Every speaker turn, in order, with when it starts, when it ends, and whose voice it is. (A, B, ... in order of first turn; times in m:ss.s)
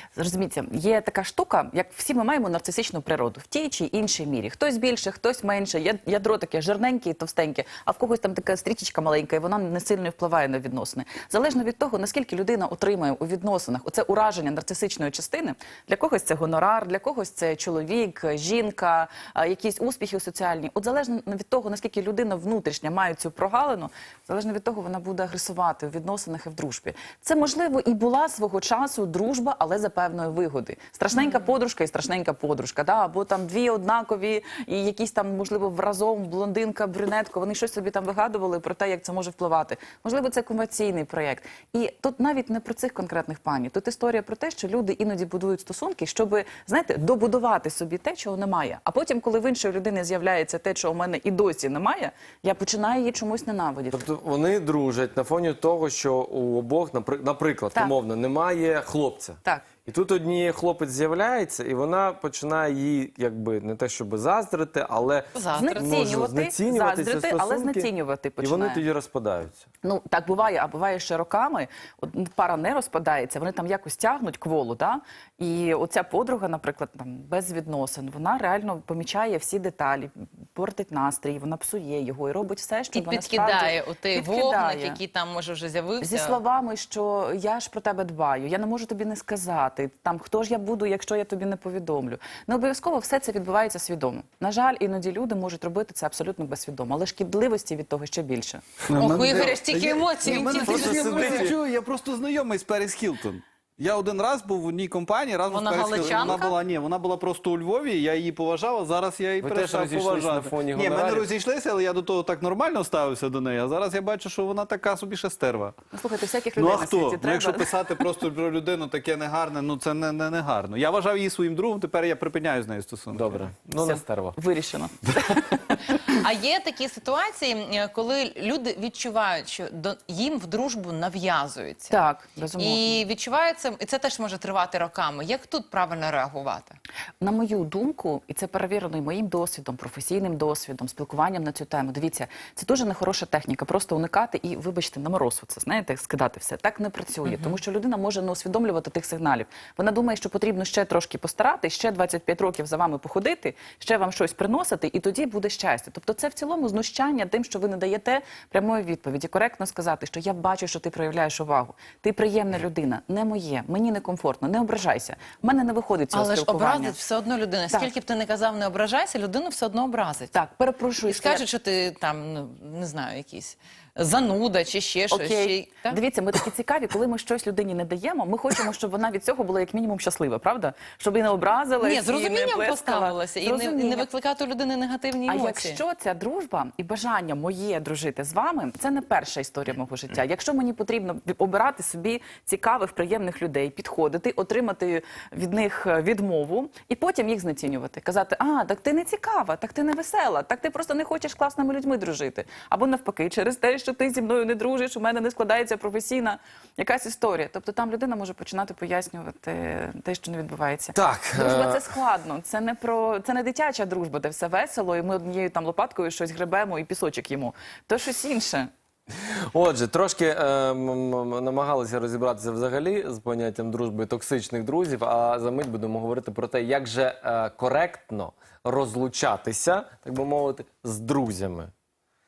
0:00.2-0:54.0 A
0:53.9-1:09.6 B
1:05.3-1:05.9 C
1:05.5-1:08.8 A
1:09.8-1:25.0 A
1:22.9-1:26.4 C
1:26.0-1:38.6 A
1:38.9-1:55.7 D
1:38.9-1:41.5 C
1:40.4-1:41.6 B
1:45.5-1:46.6 C
1:49.4-1:51.3 B
1:55.9-1:57.7 A
1:56.6-2:03.4 D
2:03.1-2:04.4 B
2:03.8-2:05.7 A
2:05.9-2:12.0 C
2:11.9-2:13.0 A
2:12.6-2:16.8 C
2:17.2-2:47.0 A
2:27.2-2:27.6 C
2:46.1-2:50.3 C
2:50.3-2:51.4 A
2:51.0-2:56.0 C
2:55.1-3:04.1 A
3:01.8-3:05.8 C
3:05.2-3:38.7 A
3:30.9-3:31.8 B
3:39.5-3:51.7 B